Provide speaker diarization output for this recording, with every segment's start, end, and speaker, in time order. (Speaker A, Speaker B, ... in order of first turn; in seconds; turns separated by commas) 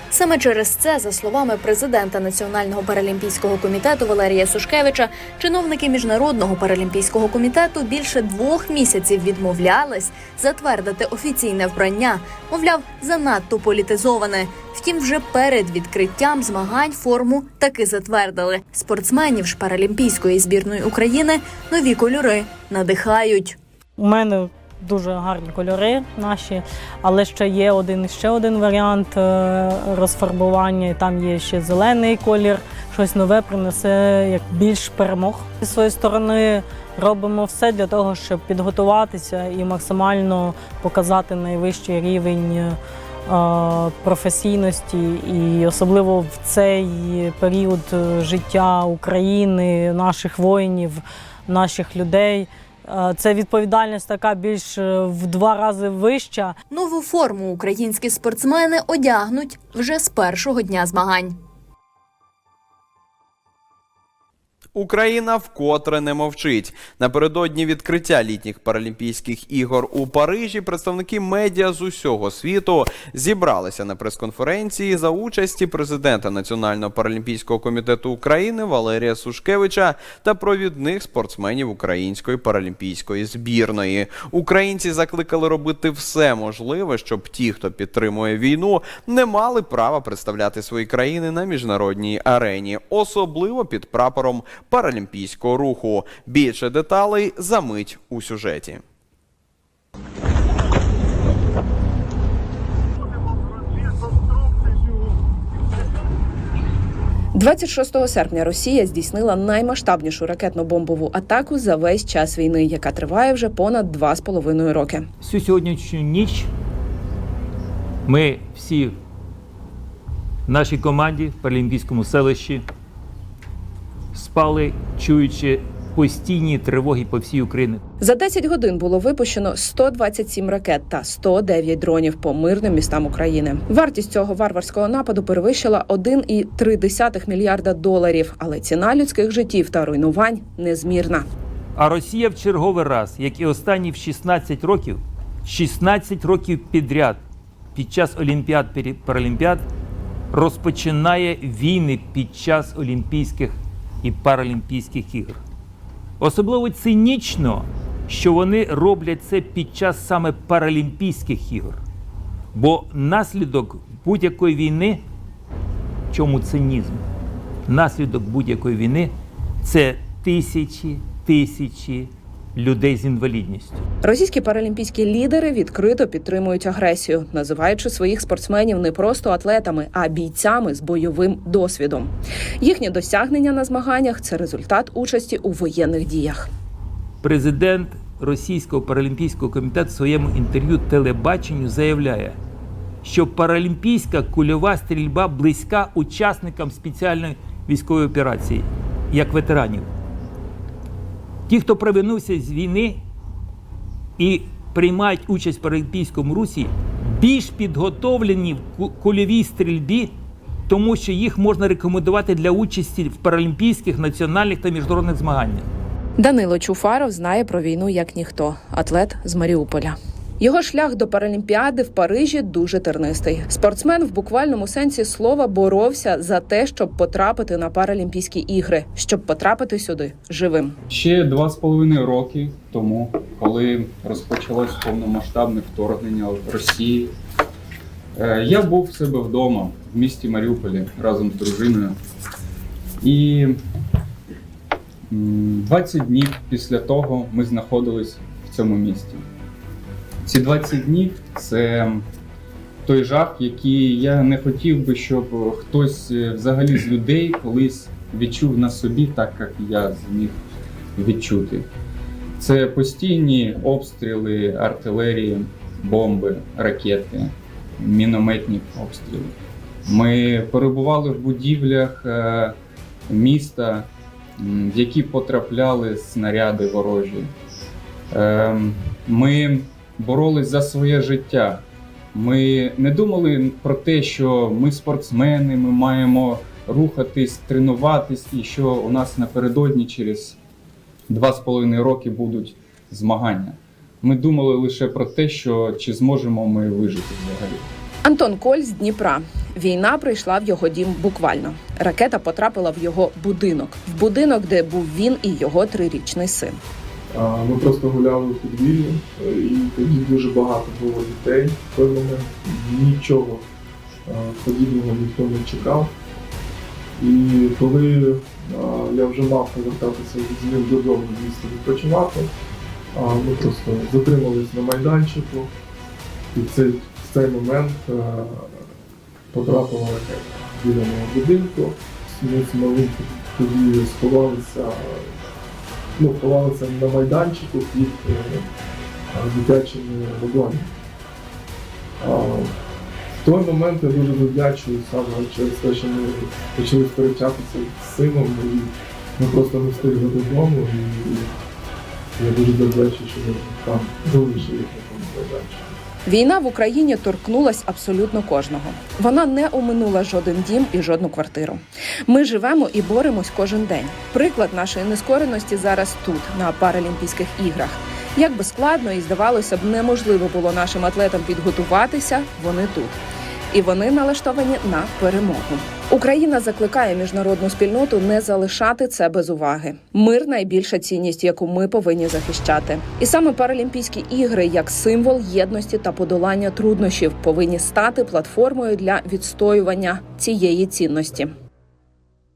Speaker A: 0.1-23.6, Speaker B: 24.0-56.5, Speaker A: 56.7-61.4, Speaker C: 64.7-98.8, Speaker D: 107.3-115.1, Speaker E: 115.2-116.5, Speaker E: 118.0-119.0, Speaker E: 120.5-122.7, Speaker E: 124.1-127.8, Speaker D: 128.0-141.3, Speaker E: 141.8-147.2, Speaker E: 147.7-149.7, Speaker E: 150.3-155.4, Speaker E: 156.2-161.8, Speaker E: 162.5-165.0, Speaker E: 166.1-167.0, Speaker E: 167.7-173.8, Speaker D: 174.0-186.5, Speaker E: 187.2-192.4, Speaker E: 193.0-199.9, Speaker E: 201.5-203.0, Speaker E: 204.2-210.2, Speaker E: 210.7-215.7, Speaker D: 216.2-230.8, Speaker F: 230.9-237.1, Speaker F: 238.1-242.0, Speaker F: 243.0-243.6, Speaker F: 245.1-249.2, Speaker F: 250.2-252.1, Speaker F: 252.8-260.4, Speaker F: 260.9-261.7, Speaker F: 262.4-272.6, Speaker F: 273.1-277.3, Speaker F: 278.1-290.4, Speaker F: 291.1-297.7, Speaker D: 298.0-306.6, Speaker G: 307.1-313.5, Speaker G: 314.1-315.9, Speaker G: 317.0-322.3, Speaker G: 322.9-325.5, Speaker G: 326.3-328.7, Speaker G: 329.3-335.1, Speaker G: 336.0-338.5, Speaker G: 339.1-340.7, Speaker G: 342.0-342.5, Speaker G: 343.2-351.3, Speaker G: 352.1-355.8, Speaker D: 356.1-373.0, Speaker D: 373.5-391.3